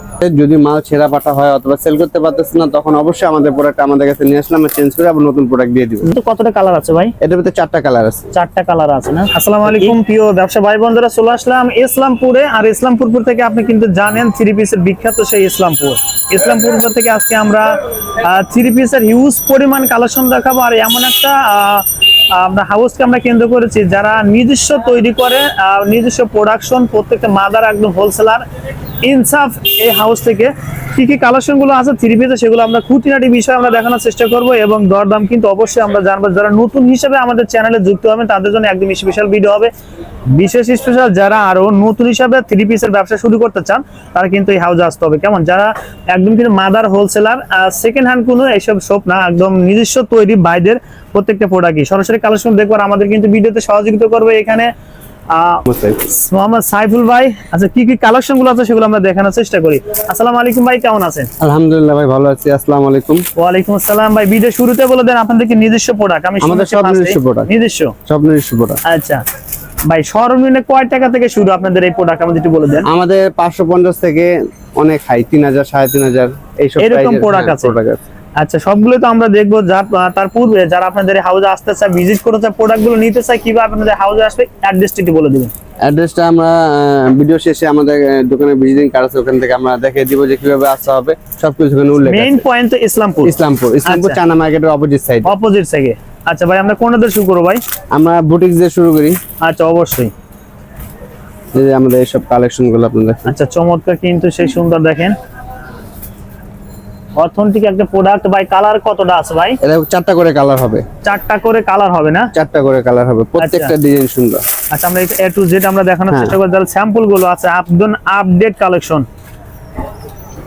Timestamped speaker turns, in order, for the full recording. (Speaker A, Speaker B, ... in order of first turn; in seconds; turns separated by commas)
Speaker A: 0.2-6.1, Speaker B: 6.0-7.1, Speaker A: 7.2-8.3, Speaker B: 8.3-28.4, Speaker A: 9.7-10.0, Speaker B: 29.0-39.7, Speaker B: 40.3-54.7, Speaker B: 55.3-61.3, Speaker A: 55.7-56.0, Speaker A: 61.4-63.2, Speaker B: 63.4-68.0, Speaker A: 66.4-67.5, Speaker A: 68.1-68.8, Speaker B: 68.8-69.2, Speaker B: 69.8-72.9, Speaker A: 72.9-78.0, Speaker B: 76.8-77.8, Speaker B: 78.4-85.5, Speaker A: 85.8-92.4, Speaker B: 92.0-94.2, Speaker A: 93.2-95.3, Speaker B: 95.2-97.6, Speaker A: 97.9-99.2, Speaker B: 99.4-100.1, Speaker A: 101.5-103.3, Speaker B: 103.3-105.2, Speaker B: 107.2-109.6, Speaker A: 109.6-110.8, Speaker B: 111.0-112.3, Speaker A: 112.3-114.4, Speaker B: 113.4-113.7, Speaker B: 114.7-119.1, Speaker A: 116.1-116.3